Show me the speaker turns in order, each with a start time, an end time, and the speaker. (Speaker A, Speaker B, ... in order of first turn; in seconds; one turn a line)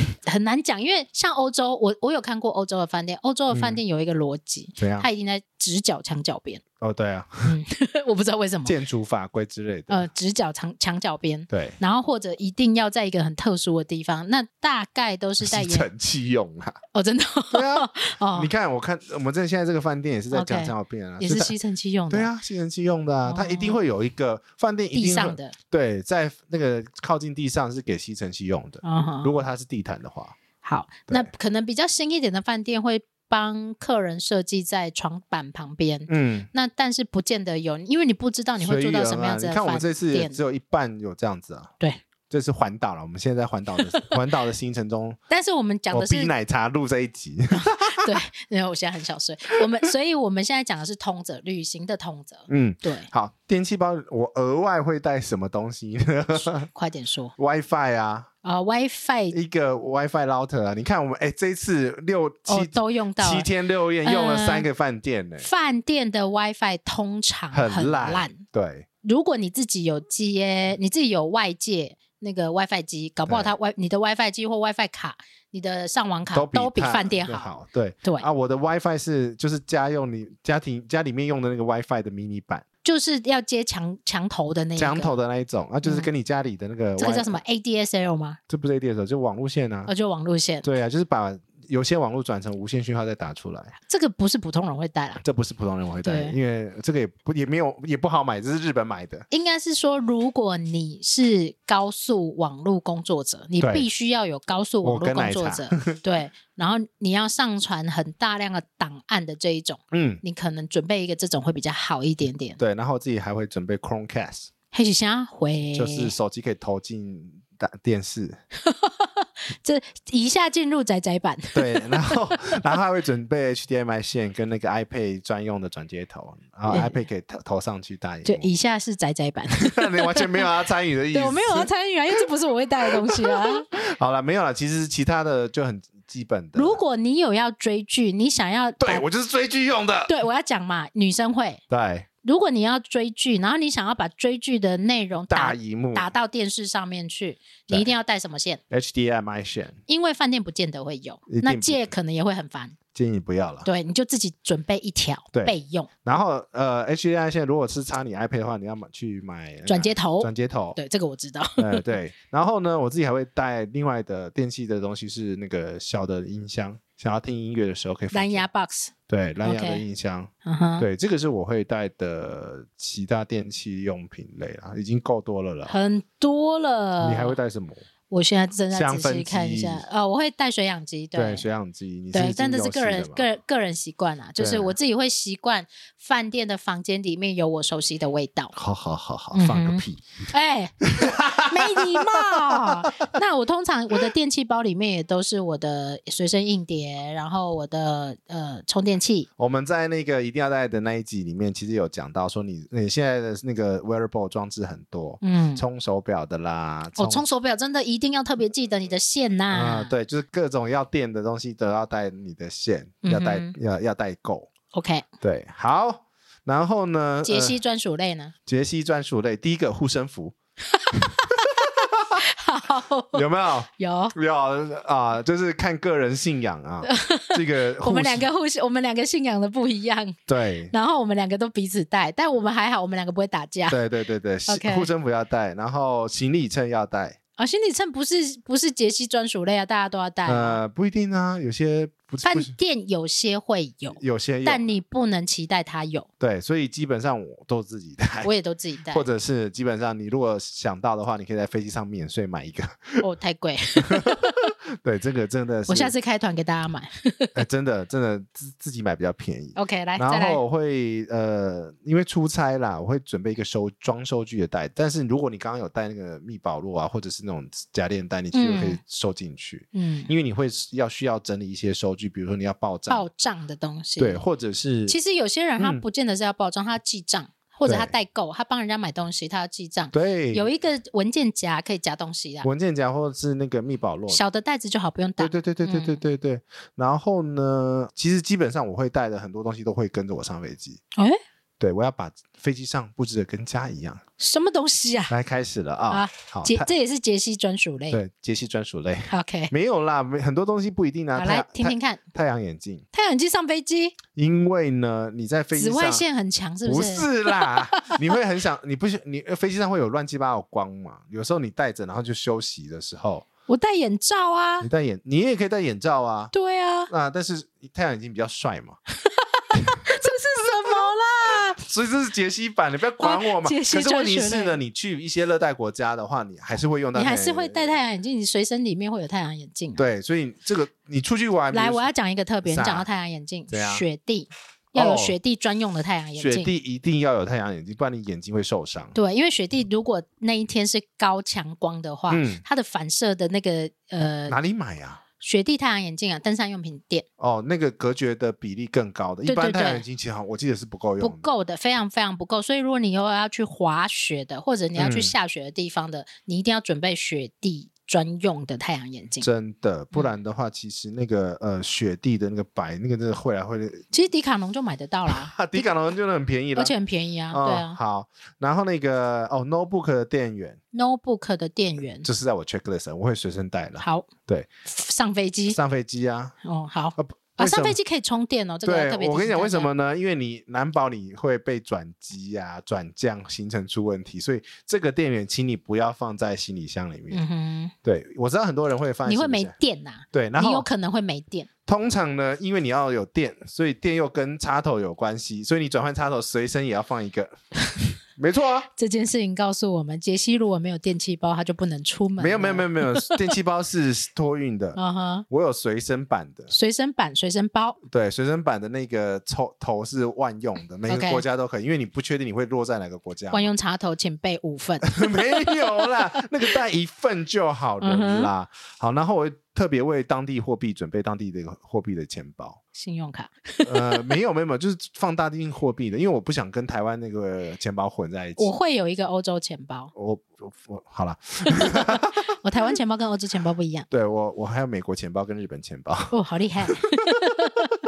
Speaker A: 0.2-6.6
Speaker B: 3.5-3.8
Speaker B: 4.8-5.0
Speaker B: 6.8-7.6
Speaker A: 7.4-8.7
Speaker B: 8.7-10.1
Speaker A: 9.9-15.9
Speaker B: 11.5-11.8
Speaker B: 15.4-16.8
Speaker A: 16.9-18.5
Speaker B: 17.5-21.5
Speaker A: 20.3-22.3
Speaker B: 22.1-30.4
Speaker A: 23.2-23.8
Speaker A: 24.9-25.5
Speaker A: 28.8-29.3
Speaker A: 30.6-40.4
Speaker B: 36.1-36.5
Speaker B: 38.6-41.7
Speaker B: 42.3-45.2
Speaker A: 43.8-44.2
Speaker A: 45.3-46.3
Speaker B: 45.9-48.1
Speaker A: 47.5-53.1
Speaker B: 52.5-56.7
Speaker A: 56.7-57.3
Speaker B: 57.4-58.3
Speaker A: 58.4-59.4
Speaker B: 59.3-65.5
Speaker A: 62.5-63.5
Speaker A: 64.0-64.7
Speaker A: 65.4-68.4
Speaker B: 67.5-68.9
Speaker A: 69.0-77.5
Speaker B: 73.3-73.5
Speaker B: 76.3-82.6
Speaker A: 82.8-85.1
Speaker B: 84.8-87.4
Speaker A: 85.8-86.1
Speaker A: 87.0-88.4
Speaker B: 88.5-89.9
Speaker A: 89.9-90.7
Speaker B: 90.6-93.8
Speaker A: 93.9-95.2
Speaker B: 95.2-99.2
Speaker A: 96.0-96.3
Speaker A: 99.3-112.6
Speaker B: 103.6-103.8
Speaker B: 104.8-106.0
Speaker B: 109.9-110.2
Speaker B: 112.6-114.5
Speaker A: 114.7-116.1
Speaker B: 115.7-118.4
Speaker A: 118.6-122.6
Speaker B: 121.5-128.5
Speaker A: 126.7-127.0
Speaker A: 128.2-130.4
Speaker B: 129.6-132.2
Speaker A: 131.1-133.7
Speaker B: 132.8-136.8
Speaker A: 136.5-139.0
Speaker B: 138.8-140.1
Speaker A: 140.1-141.6
Speaker B: 141.7-142.1
Speaker A: 142.2-148.6
Speaker B: 145.3-146.1
Speaker B: 148.7-149.8
Speaker A: 149.9-152.8
Speaker B: 151.3-151.9
Speaker B: 152.9-153.7
Speaker A: 153.6-155.9
Speaker B: 155.3-160.8
Speaker A: 159.7-161.9
Speaker B: 161.6-168.4
Speaker A: 168.1-168.9
Speaker B: 169.1-175.7
Speaker A: 169.4-169.8
Speaker A: 170.4-170.9
Speaker A: 175.7-177.3
Speaker B: 177.0-177.8
Speaker A: 178.1-181.4
Speaker B: 178.7-179.8
Speaker B: 181.1-183.2
Speaker A: 182.1-188.5
Speaker B: 184.4-184.7
Speaker B: 188.5-190.0
Speaker A: 189.3-199.3
Speaker B: 190.8-192.8
Speaker B: 199.4-207.2
Speaker A: 205.2-205.6
Speaker A: 207.0-209.9
Speaker B: 209.5-214.5
Speaker A: 213.0-213.5
Speaker A: 214.7-215.1
Speaker B: 215.2-217.6
Speaker A: 217.2-218.3
Speaker B: 218.5-220.3
Speaker A: 220.7-223.2
Speaker B: 220.9-222.2
Speaker B: 223.1-228.3
Speaker A: 223.8-224.1
Speaker A: 226.8-230.2
Speaker B: 230.3-230.7
Speaker A: 230.7-233.8
Speaker B: 233.7-237.2
Speaker A: 234.5-234.9
Speaker A: 237.4-240.6
Speaker B: 240.2-242.5
Speaker A: 242.2-246.1
Speaker B: 243.9-244.7
Speaker B: 246.2-248.3
Speaker A: 248.2-249.0
Speaker B: 248.9-253.0
Speaker A: 253.0-254.5
Speaker B: 253.8-255.9
Speaker A: 255.7-257.4
Speaker B: 257.3-273.1
Speaker A: 259.6-260.4
Speaker A: 268.3-268.8
Speaker A: 269.7-270.1
Speaker A: 272.9-274.2
Speaker B: 274.0-275.0
Speaker A: 274.9-282.5
Speaker B: 277.6-277.9
Speaker B: 279.9-280.5
Speaker B: 282.4-284.2
Speaker A: 284.1-286.0
Speaker B: 285.2-290.8
Speaker B: 291.6-294.0
Speaker A: 294.2-295.1
Speaker B: 295.1-296.7
Speaker A: 295.9-298.0
Speaker B: 297.9-302.8
Speaker A: 299.1-299.5
Speaker A: 301.1-302.0
Speaker A: 302.9-304.0
Speaker B: 304.1-306.0
Speaker A: 305.5-308.1
Speaker B: 306.6-313.2
Speaker A: 313.5-314.7
Speaker B: 314.6-316.3
Speaker A: 316.3-316.9
Speaker B: 316.9-318.8
Speaker A: 319.1-321.6
Speaker B: 319.5-319.8
Speaker B: 321.6-327.7
Speaker A: 323.0-324.6
Speaker A: 326.9-329.8
Speaker B: 329.8-331.9
Speaker A: 331.5-336.5
Speaker B: 332.4-332.9
Speaker B: 333.5-333.8
Speaker B: 334.7-335.1
Speaker B: 336.2-338.9
Speaker A: 338.9-344.4
Speaker B: 342.1-342.4
Speaker B: 344.3-345.0
Speaker A: 345.2-347.1
Speaker B: 347.2-351.2
Speaker A: 349.2-349.8
Speaker A: 351.0-359.3
Speaker B: 354.8-355.1
Speaker B: 359.2-363.8
Speaker A: 363.9-365.7
Speaker B: 365.1-366.7
Speaker A: 366.5-367.8
Speaker B: 367.3-370.6
Speaker A: 370.7-372.1
Speaker B: 372.0-374.5
Speaker A: 373.8-374.1
Speaker A: 374.6-375.6
Speaker B: 375.5-376.3
Speaker A: 376.4-379.7
Speaker B: 377.0-377.8
Speaker B: 378.6-387.2
Speaker A: 387.1-387.7
Speaker B: 387.8-389.5
Speaker A: 389.0-391.5
Speaker B: 390.1-390.7
Speaker B: 391.7-397.3
Speaker B: 398.1-398.7
Speaker A: 398.7-403.3
Speaker B: 402.2-404.8
Speaker A: 404.8-405.2
Speaker B: 405.3-406.5
Speaker A: 406.5-407.8
Speaker B: 407.8-413.5
Speaker A: 410.9-411.2
Speaker A: 413.3-415.9
Speaker B: 414.8-422.6
Speaker A: 417.8-418.3
Speaker A: 422.7-424.1
Speaker B: 423.6-428.5
Speaker A: 428.4-429.9
Speaker B: 429.9-432.2
Speaker A: 431.5-433.9
Speaker B: 433.9-436.1
Speaker A: 436.1-437.7
Speaker B: 436.7-437.5